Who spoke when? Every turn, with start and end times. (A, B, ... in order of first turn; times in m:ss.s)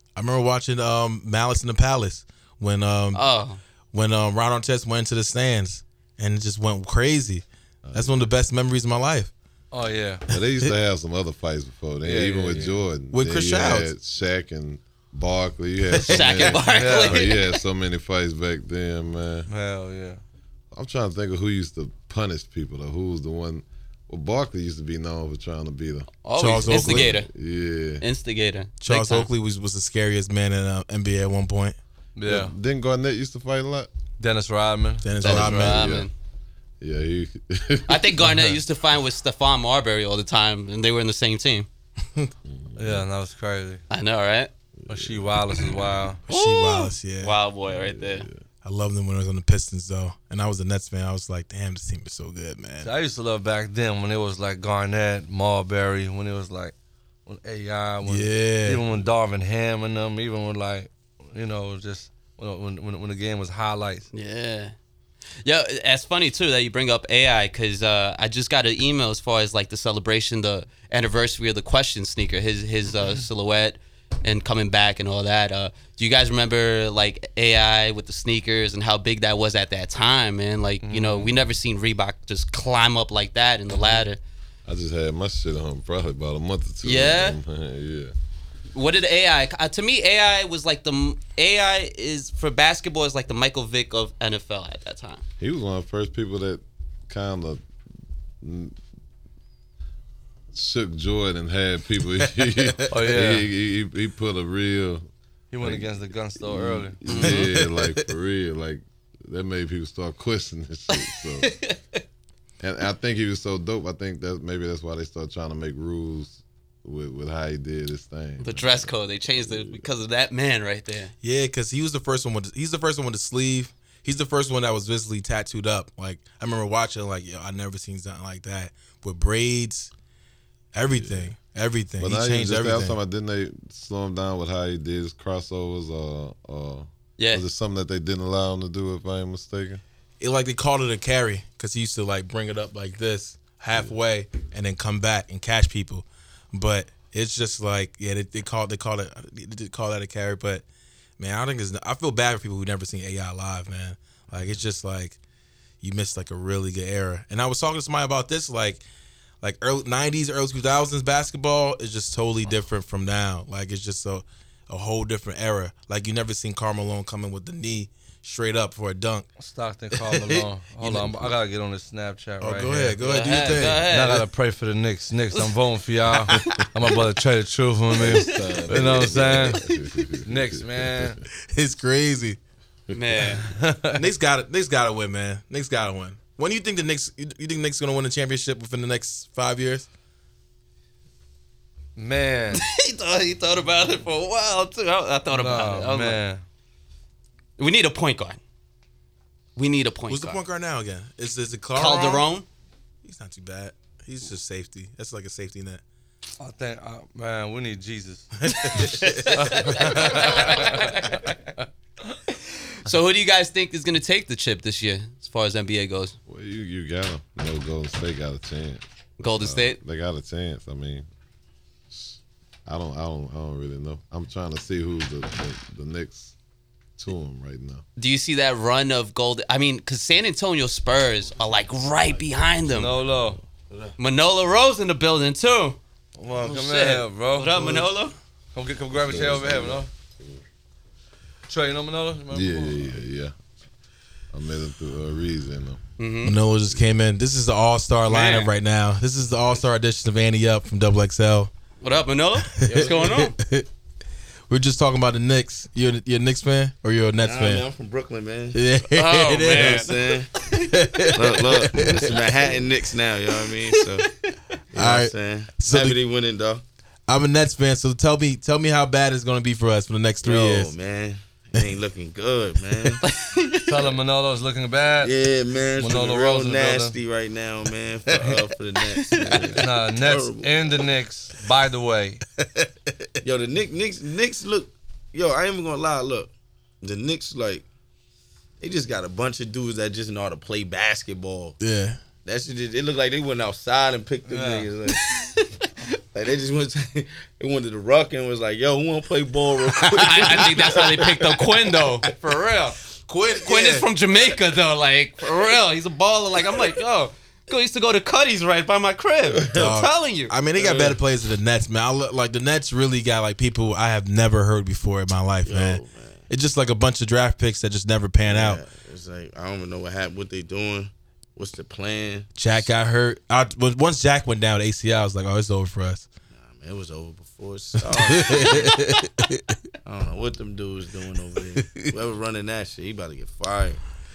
0:00.2-0:03.2 A
0:03.1-0:03.6 B
0:03.9-0:09.3 A
0:07.8-0:08.3 C
0:09.7-0:10.3 D
0:10.3-0:19.5 C
0:12.0-0:12.8 D
0:13.1-0:13.9 A
0:15.9-0:17.5 B
0:16.7-0:17.4 D
0:19.5-0:20.2 D
0:20.7-0:28.0 C
0:26.2-0:27.3 B
0:26.4-0:27.1 A
0:28.0-0:29.3 B
0:28.8-0:31.8 A
0:32.2-0:32.5 D
0:32.3-0:33.9 C
0:34.2-0:35.1 D
0:35.0-0:36.0 A
0:35.2-0:36.1 B
0:35.2-0:36.1 C
0:36.8-0:38.2 C
0:37.9-0:41.7 B
0:38.2-0:38.6 D
0:42.4-0:43.1 C
0:42.8-0:43.8 D
0:43.9-0:44.5 B
0:44.8-0:45.9 C
0:44.9-0:46.2 D
0:46.3-0:47.4 A
0:46.3-0:48.3 B
0:47.7-0:48.4 C
0:48.6-0:52.9 A
0:52.8-0:56.8 D
0:57.3-1:04.1 D
0:58.1-0:58.8 A
1:04.1-1:04.8 B
1:05.4-1:24.2 B
1:20.8-1:21.4 D
1:24.7-1:28.1 C
1:26.8-1:27.4 B
1:28.7-1:35.2 B
1:35.4-1:37.6 C
1:38.4-1:38.8 C
1:40.5-1:45.1 C
1:42.9-1:43.5 D
1:45.5-1:47.0 D
1:45.6-1:51.5 C
1:47.1-1:47.5 B
1:47.1-1:48.1 A
1:50.9-1:51.8 B
1:52.6-1:59.8 C
1:58.4-2:01.1 B
2:01.2-2:09.9 A
2:10.7-2:13.0 A
2:10.9-2:11.3 C
2:12.0-2:19.8 C
2:17.2-2:17.4 B
2:20.2-2:30.6 A
2:31.2-2:35.2 A
2:35.8-2:38.8 A
2:39.4-2:49.3 A
2:49.4-2:53.0 D
2:49.9-2:51.3 A
2:52.4-2:54.2 A
2:53.0-2:54.2 B
2:53.7-2:59.7 D
2:56.3-2:56.6 A
2:56.4-2:56.6 C
2:57.9-3:01.2 C
2:58.1-2:58.6 B
3:00.2-3:01.2 D
3:01.5-3:02.4 A
3:02.9-3:03.3 C
3:02.9-3:03.5 B
3:03.4-3:04.0 D
3:03.9-3:09.9 A
3:12.0-3:12.6 D
3:12.5-3:16.2 B
3:15.3-3:16.4 D
3:17.6-3:18.4 B
3:19.6-3:20.4 B
3:20.1-3:22.3 A
3:21.8-3:22.5 B
3:23.0-3:25.8 A
3:26.4-3:31.3 D
3:28.4-3:30.2 A
3:28.9-3:31.4 B
3:32.3-3:36.2 B
3:36.3-3:41.1 C
3:39.2-3:39.8 B
3:41.9-3:46.4 C
3:47.0-3:47.8 C
3:48.0-3:52.9 B
3:52.7-3:53.4 D
3:52.8-3:53.4 C
3:54.0-3:55.8 B
3:56.2-3:57.9 D
3:56.4-3:58.2 B
3:58.6-3:59.9 D
3:58.9-4:00.4 C
4:01.5-4:03.0 D
4:02.3-4:03.4 C
4:04.3-4:05.8 C
4:06.0-4:06.4 B
4:06.2-4:11.5 A
4:08.1-4:08.5 B
4:11.8-4:13.4 B
4:12.5-4:13.7 A
4:12.6-4:13.3 E
4:14.5-4:17.6 A
4:17.2-4:18.6 E
4:18.6-4:20.0 A
4:18.9-4:20.7 B
4:19.5-4:20.3 E
4:20.5-4:22.4 A
4:21.1-4:24.1 E
4:23.7-4:24.0 B
4:24.7-4:26.0 A
4:24.7-4:26.6 E
4:27.1-4:30.7 A
4:30.2-4:33.0 E
4:33.0-4:33.9 B
4:33.7-4:35.2 D
4:35.0-4:40.8 E
4:35.7-4:37.0 D
4:38.1-4:38.5 D
4:38.9-4:39.6 B
4:39.6-4:42.2 D
4:43.2-4:47.6 E
4:48.6-4:51.6 E
4:51.6-4:52.0 A
4:52.2-4:55.1 E
4:54.3-4:54.7 D
4:54.9-4:55.9 B
4:56.0-5:02.2 E
4:59.9-5:02.8 B
5:03.1-5:03.9 A
5:03.4-5:10.3 B
5:09.3-5:09.8 E
5:09.6-5:18.6 A
5:10.6-5:11.0 E
5:15.5-5:16.3 E
5:18.3-5:22.7 E
5:22.4-5:26.1 A
5:26.4-5:28.8 E
5:27.8-5:29.6 A
5:29.8-5:33.8 E
5:31.5-5:31.9 A